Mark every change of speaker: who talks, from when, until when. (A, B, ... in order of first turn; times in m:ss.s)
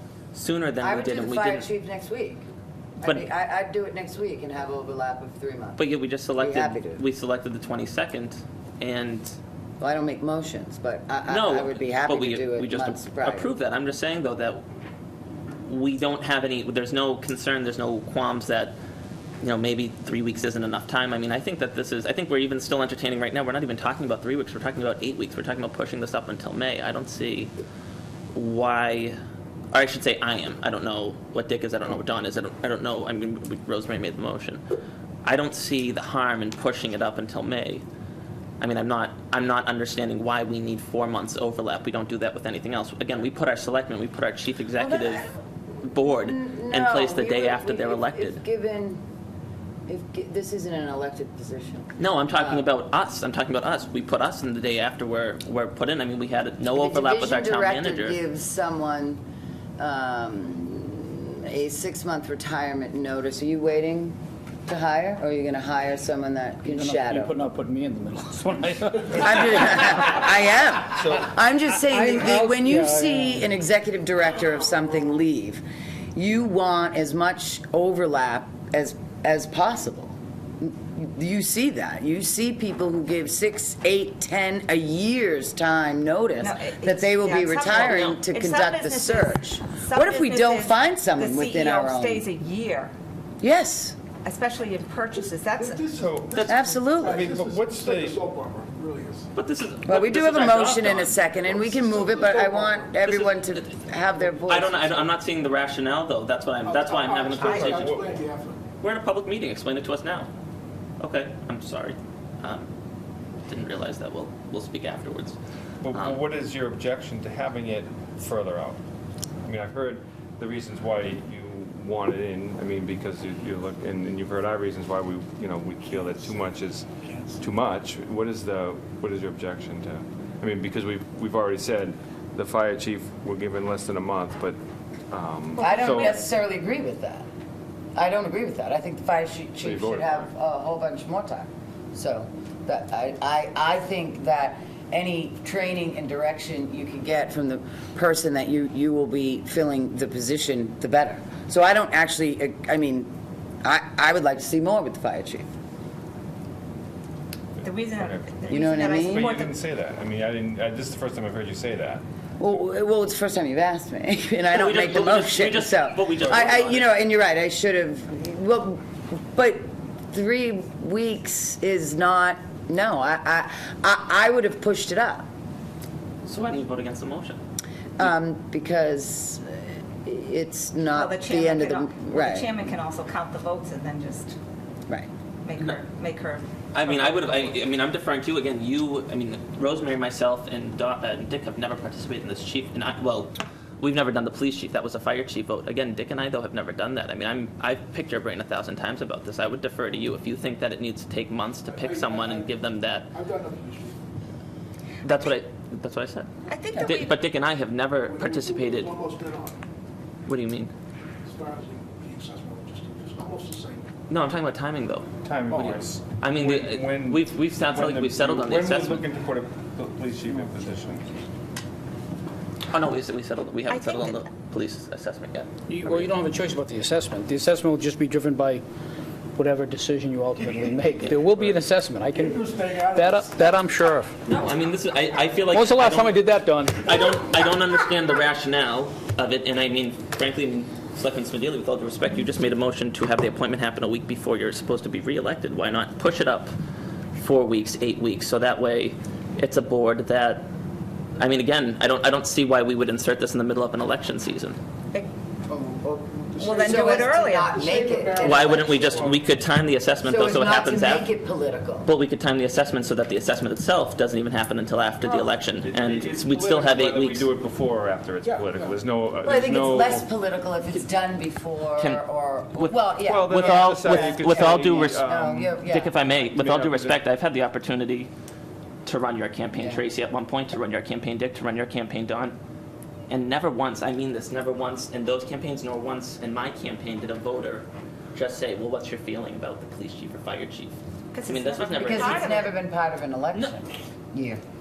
0:00.3-0:01.7 A
0:00.8-0:02.4 B
0:03.0-0:07.0 B
0:05.8-0:09.4 A
0:09.8-0:13.5 B
0:11.3-0:14.6 A
0:15.7-0:18.8 A
0:19.4-0:27.5 A
0:28.3-0:29.2 A
0:29.7-0:34.6 A
0:35.2-0:37.8 A
0:38.6-0:45.3 A
0:44.8-0:45.3 B
0:45.8-0:48.4 A
0:46.0-0:49.0 B
0:49.9-0:52.6 B
0:52.0-0:58.2 A
0:56.7-0:59.2 B
0:59.8-1:07.4 B
1:06.6-1:10.2 C
1:09.0-1:15.6 B
1:11.0-1:11.3 D
1:11.8-1:13.4 C
1:16.2-1:32.2 B
1:26.4-1:32.9 E
1:27.8-1:28.2 A
1:33.4-1:34.0 B
1:34.2-1:35.8 E
1:35.2-1:39.3 F
1:35.9-1:36.5 D
1:36.3-1:36.7 A
1:36.5-1:37.2 B
1:37.0-1:38.2 D
1:39.3-1:41.2 A
1:39.8-1:45.1 B
1:41.5-1:42.9 F
1:43.0-1:43.8 A
1:44.4-1:48.1 A
1:46.6-1:48.6 F
1:47.4-1:47.7 E
1:47.4-1:48.1 D
1:48.8-1:50.3 A
1:51.0-1:52.7 A
1:53.5-1:55.4 A
1:55.8-1:58.8 D
1:55.9-1:56.2 A
1:59.4-2:14.6 D
2:15.1-2:16.2 D
2:15.6-2:17.2 B
2:15.6-2:15.9 E
2:17.9-2:33.1 B
2:19.6-2:20.3 D
2:33.6-2:35.5 B
2:37.6-2:42.0 D
2:37.6-2:39.6 E
2:38.5-2:39.3 B
2:42.4-2:48.8 B
2:44.5-2:46.9 A
2:49.3-2:55.2 B
2:56.2-2:57.4 A
2:58.0-3:02.5 B
3:00.9-3:04.4 E
3:05.4-3:07.4 E
3:06.7-3:23.1 A
3:21.7-3:22.5 F
3:23.1-3:24.0 F
3:25.0-3:28.9 A
3:26.5-3:27.2 E
3:28.0-3:29.6 F
3:30.3-3:30.7 A
3:31.2-3:33.9 F
3:34.1-3:39.1 A
3:35.2-3:41.1 D
3:42.7-3:46.1 A
3:43.7-3:44.1 E
3:45.7-3:48.6 C
3:49.4-3:54.1 C
3:52.1-3:53.5 F
3:54.2-3:56.2 A
3:55.5-3:56.8 C
3:56.8-4:06.5 A
4:07.2-4:10.5 A
4:11.2-4:14.6 A
4:15.5-4:19.1 B
4:16.3-4:17.0 F
4:16.4-4:17.8 E
4:17.6-4:19.1 F
4:18.2-4:21.1 A
4:20.0-4:21.9 B
4:21.8-4:27.3 A
4:25.6-4:30.0 D
4:28.2-4:28.7 F
4:29.2-4:36.2 B
4:33.0-4:35.6 D
4:33.3-4:35.0 A
4:35.6-4:38.1 A
4:36.3-4:37.0 D
4:38.8-4:42.4 A
4:39.6-4:39.8 B
4:43.1-4:52.5 A
4:51.1-4:52.5 E
4:51.8-4:54.4 B